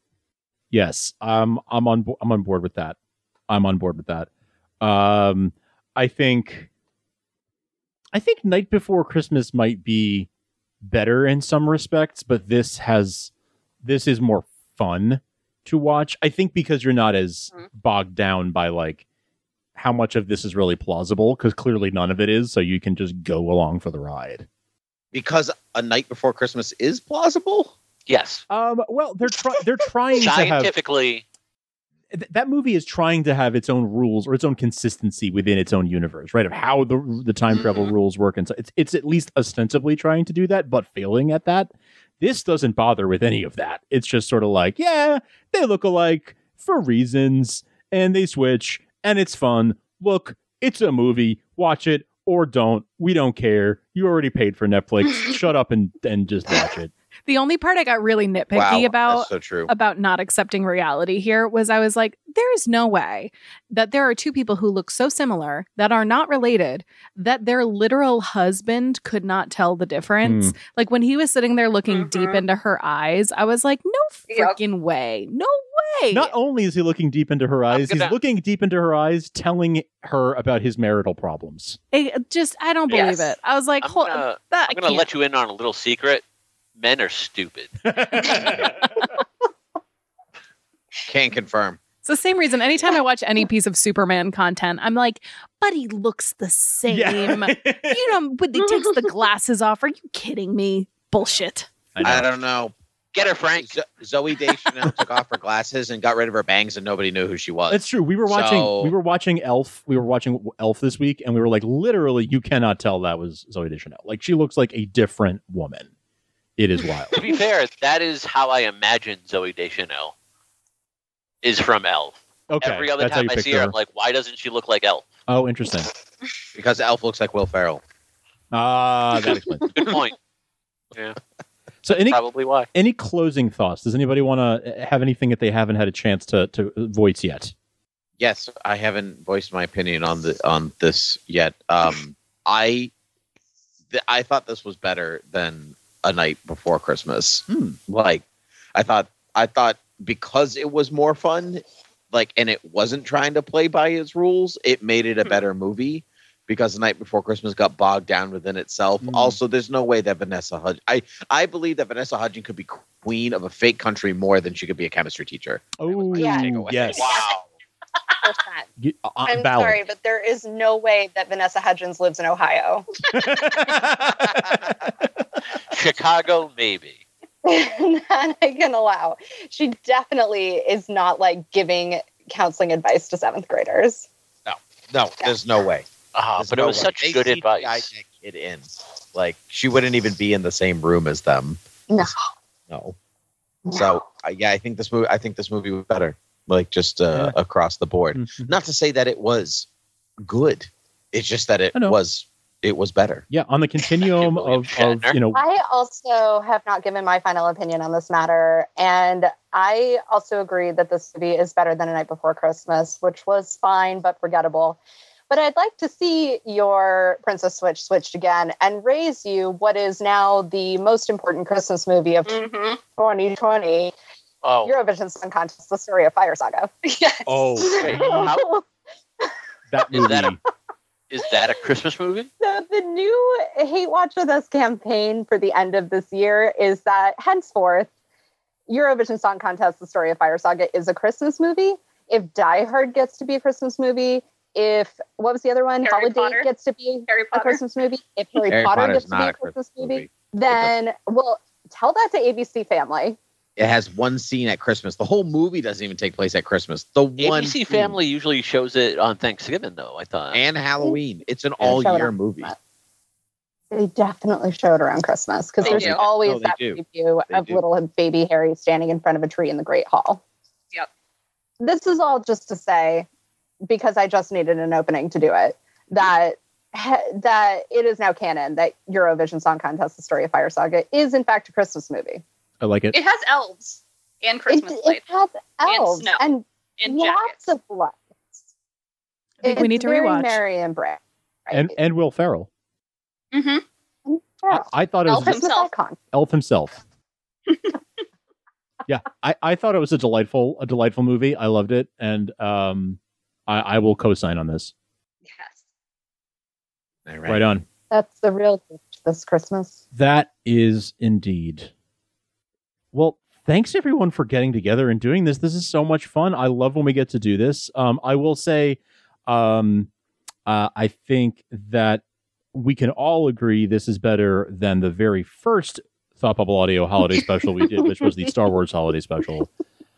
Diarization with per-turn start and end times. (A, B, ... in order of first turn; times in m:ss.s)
0:00.7-0:03.0 A
0:03.5-0:04.3 A
0:04.8-0:06.7 A
0:08.1-0:10.3 A
0:10.8-0:13.3 A
0:13.8-0:19.0 A
0:19.7-0:24.5 A
0:25.1-0:27.7 B
0:28.1-0:28.4 C
0:28.5-0:30.7 A
0:30.2-0:31.2 C
0:32.1-0:56.9 A
0:57.2-1:16.3 D
0:58.5-0:59.7 B
1:10.2-1:10.6 A
1:11.9-1:12.4 E
1:14.3-1:14.6 E
1:16.1-1:21.8 A
1:17.7-1:18.1 C
1:21.9-1:25.1 D
1:22.9-1:23.3 E
1:23.8-1:26.2 C
1:26.8-1:28.5 C
1:27.8-1:29.0 A
1:31.1-1:31.8 B
1:32.0-1:41.7 D
1:36.9-1:38.1 A
1:41.9-1:42.3 A
1:42.0-1:48.9 B
1:43.1-1:43.8 C
1:47.7-1:55.9 A
1:56.6-1:57.2 A
1:57.1-2:00.1 C
2:01.4-2:05.1 C
2:02.5-2:03.7 A
2:05.3-2:05.9 A
2:06.5-2:07.8 B
2:08.5-2:09.8 A
2:09.7-2:10.2 C
2:11.8-2:12.2 A
2:12.0-2:12.7 C
2:12.7-2:17.5 A
2:18.2-2:22.9 B
2:23.9-2:47.4 B
2:27.5-2:27.8 A
2:39.0-2:39.4 A
2:45.8-2:47.1 A
2:46.2-2:46.5 F
2:46.9-2:47.3 C
2:48.2-2:48.7 F
2:48.8-2:49.8 A
2:49.2-2:52.9 F
2:53.1-2:54.8 A
2:55.7-2:57.0 C
2:57.4-3:04.1 F
3:04.5-3:05.8 B
3:06.1-3:07.9 C
3:06.4-3:11.6 B
3:12.7-3:13.0 B
3:13.6-3:14.0 F
3:13.7-3:19.7 B
3:17.1-3:17.4 A
3:18.1-3:18.5 A
3:20.2-3:23.2 B
3:23.3-3:25.4 A
3:24.1-3:25.1 C
3:25.3-3:34.8 F
3:35.3-3:42.4 F
3:42.2-3:42.8 E
3:43.0-3:43.9 F
3:44.4-3:44.8 C
3:44.6-3:46.7 F
3:46.8-3:47.4 E
3:47.3-3:48.3 A
3:47.5-3:48.6 F
3:47.7-3:48.5 C
3:49.7-3:50.4 A
3:49.9-3:50.4 C
3:51.1-3:52.3 C
3:52.4-3:57.9 F
3:58.7-4:13.2 F
4:05.8-4:06.5 E
4:07.1-4:07.6 E
4:08.5-4:10.7 B
4:13.6-4:18.0 B
4:17.2-4:20.4 C
4:20.3-4:22.5 B
4:21.6-4:22.6 F
4:23.7-4:30.2 F
4:25.6-4:26.0 E
4:25.6-4:27.6 B
4:31.6-4:33.1 F
4:33.6-4:42.2 F
4:42.6-4:43.0 A
4:42.9-4:45.0 E
4:44.5-4:48.4 F
4:45.7-4:46.2 E
4:46.8-4:47.4 E
4:49.4-4:50.4 D
4:49.4-4:51.8 F
4:51.5-4:52.5 A
4:53.3-4:53.6 E
4:54.1-4:56.0 F
4:54.5-4:55.4 A
4:55.0-4:55.7 E
4:56.1-4:56.8 A
4:58.9-5:04.7 A
5:05.2-5:05.6 E
5:07.0-5:07.4 B
5:07.2-5:07.6 A
5:07.9-5:09.8 F
5:09.9-5:11.7 A
5:12.9-5:19.9 A
5:20.4-5:29.5 A